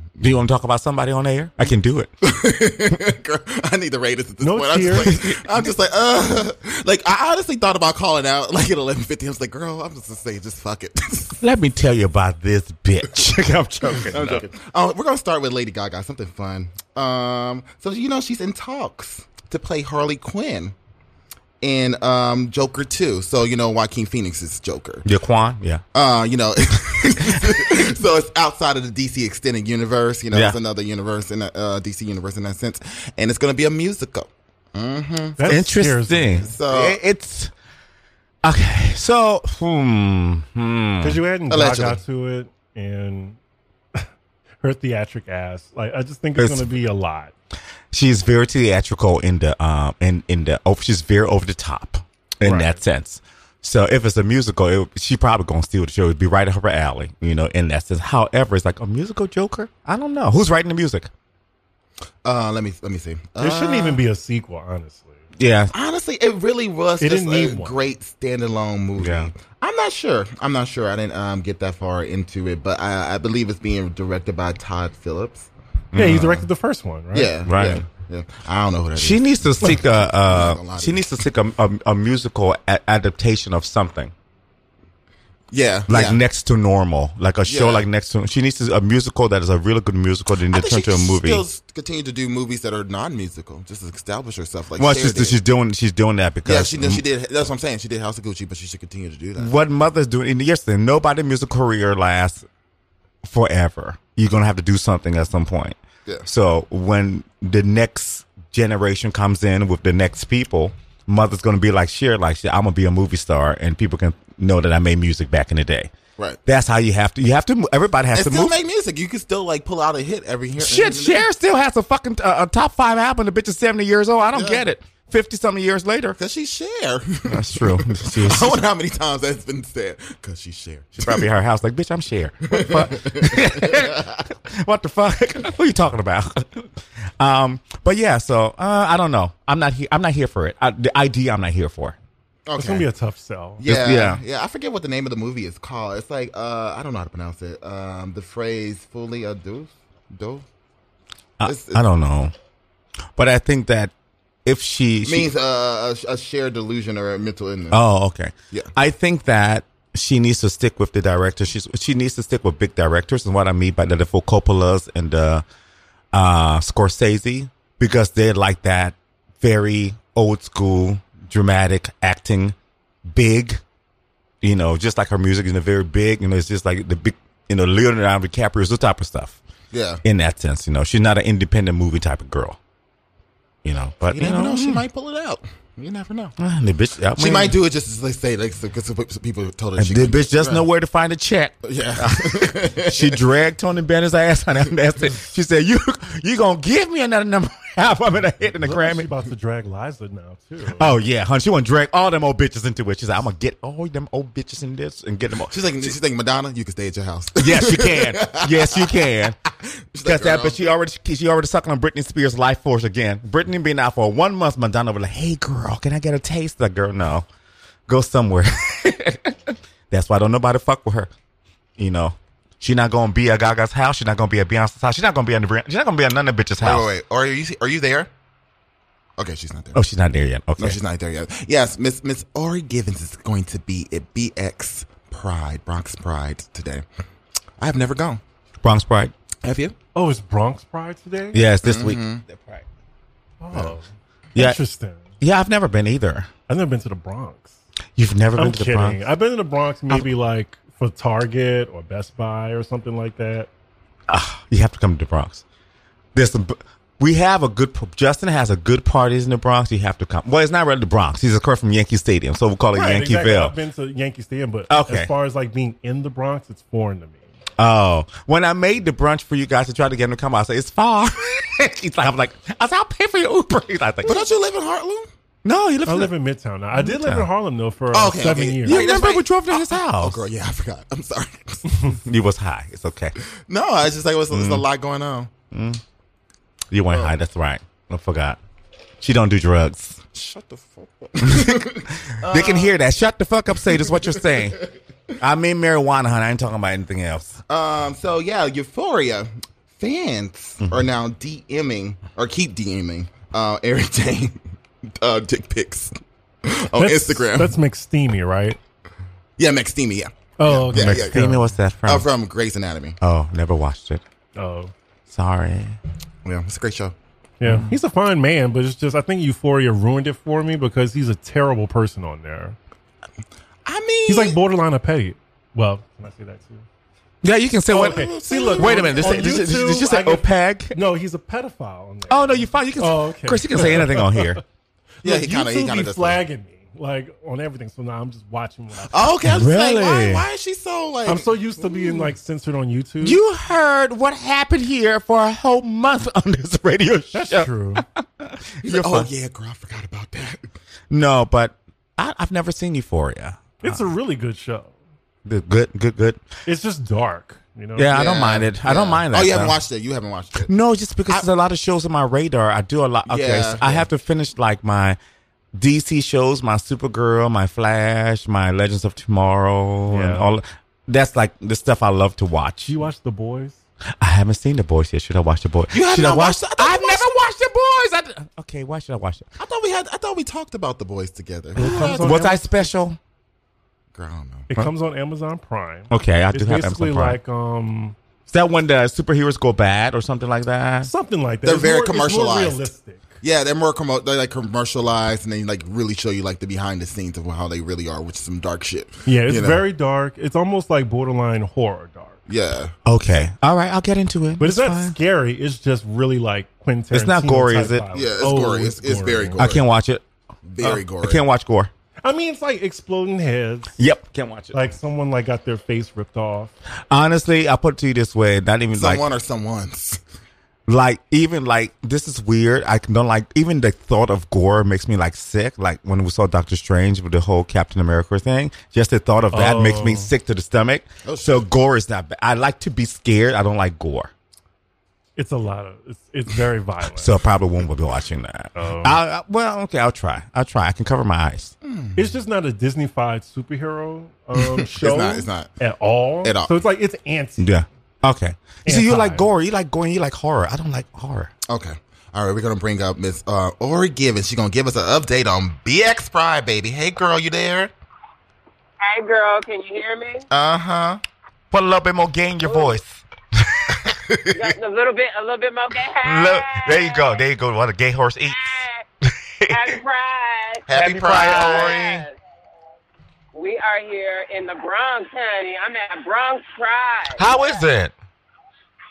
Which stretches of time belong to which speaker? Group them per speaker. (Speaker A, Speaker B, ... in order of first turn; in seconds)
Speaker A: 0.2-2.1, 4.9-5.7, 11.4-14.4, 25.0-25.8, 27.1-27.8, 30.3-30.6, 35.5-37.5, 38.4-41.2, 46.4-46.7, 47.9-61.1, 65.4-65.7, 69.0-69.3, 75.9-76.4, 77.5-77.8, 79.0-84.1, 85.9-91.4, 94.8-97.0, 99.4-102.4, 103.2-115.9, 116.5-118.5, 120.6-126.2, 127.3-128.6, 130.9-142.0, 143.6-144.2, 151.4-152.3, 153.2-153.9, 154.4-155.3, 157.7-165.4, 166.1-172.5, 173.1-173.6, 174.4-179.4, 180.0-182.6, 183.6-184.8, 186.4-187.6, 189.8-199.1, 200.8-205.6, 207.4-209.4, 210.0-217.2, 217.9-221.1, 221.8-226.9, 229.7-230.8, 238.6-239.1, 241.3-242.6, 244.3-244.6, 245.2-246.3, 247.9-249.0, 254.1-255.4, 256.1-263.5, 264.7-265.1, 267.6-274.2, 275.4-276.1, 276.7-277.3, 278.6-280.2, 282.0-283.1, 284.3-284.6, 285.5-285.8, 286.7-288.4, 289.0-290.0, 291.2-291.7, 292.2-294.6, 295.2-297.4, 310.7-312.1, 313.0-314.0, 315.1-315.8, 327.2-330.8, 332.1-334.4, 339.2-340.3, 343.0-349.1, 350.9-353.8, 355.2-356.2, 357.8-359.6, 360.4-365.0, 365.5-372.8, 374.0-379.3, 381.6-383.0, 385.9-387.2, 388.3-390.9, 402.9-405.0, 406.9-407.8, 409.4-410.0, 410.6-411.7, 413.8-414.7, 416.9-419.0, 420.7-434.1, 437.0-441.5, 447.4-451.3, 461.5-463.8, 466.0-469.7, 470.7-472.0, 477.1-477.9
Speaker B: 1.6-11.4, 13.9-20.7, 21.6-25.0, 25.9-35.6, 36.4-37.0, 41.5-42.0, 62.2-64.0, 65.7-75.5, 77.1-81.1, 85.5-86.2, 87.5-87.8, 90.5-95.4, 96.4-99.5, 118.1-121.2, 124.3-124.6, 126.2-131.3, 132.5-134.2, 142.5-142.9, 143.6-150.4, 151.4-151.8, 155.0-157.8, 179.7-180.0, 184.1-186.3, 187.2-190.7, 191.6-193.2, 205.5-208.9, 209.4-210.6, 226.6-228.1, 229.2-229.8, 230.6-236.8, 237.6-238.2, 239.4-239.7, 241.6-242.2, 243.5-243.8, 274.0-275.1, 277.9-281.7, 283.5-285.3, 290.1-292.8, 293.7-294.4, 297.5-304.4, 305.0-305.9, 306.4-307.6, 309.4-313.0, 316.2-316.9, 323.6-324.4, 327.7-329.5, 335.0-336.2, 338.9-341.8, 348.6-350.4, 357.9-360.5, 363.1-363.9, 375.7-377.2, 379.4-382.2, 383.9-384.5, 391.4-392.6, 393.2-399.6, 402.3-402.7, 407.9-409.6, 410.4-411.2, 418.7-420.0, 431.0-431.5, 441.6-442.1, 444.3-445.5, 446.2-446.5, 451.5-457.7, 460.3-461.0, 463.8-464.5, 470.7-471.8
Speaker C: 4.4-5.1, 35.4-36.5, 41.0-43.4, 44.6-47.3, 52.4-52.8, 63.4-65.2, 67.0-67.8, 75.9-77.4, 142.6-143.6, 198.6-200.9, 239.9-241.4, 243.4-245.0, 246.5-247.6, 248.4-253.5, 262.7-267.2, 275.9-278.9, 306.8-308.6, 310.4-311.4, 314.4-314.7, 317.4-322.6, 324.1-326.6, 327.7-334.4, 335.0-339.1, 341.0-343.2, 347.1-347.8, 353.6-354.7, 356.4-357.9, 369.9-370.3, 372.7-373.6, 381.6-382.7, 384.5-387.9, 390.8-393.1, 399.1-402.2, 404.4-409.4, 412.0-413.7, 414.5-416.5, 429.3-430.1, 435.1-437.2, 438.6-439.0, 442.0-447.5, 448.6-449.3
Speaker D: 458.8-460.2, 462.4-462.8, 464.3-467.2, 468.3-468.8, 469.5-472.1, 473.3-477.6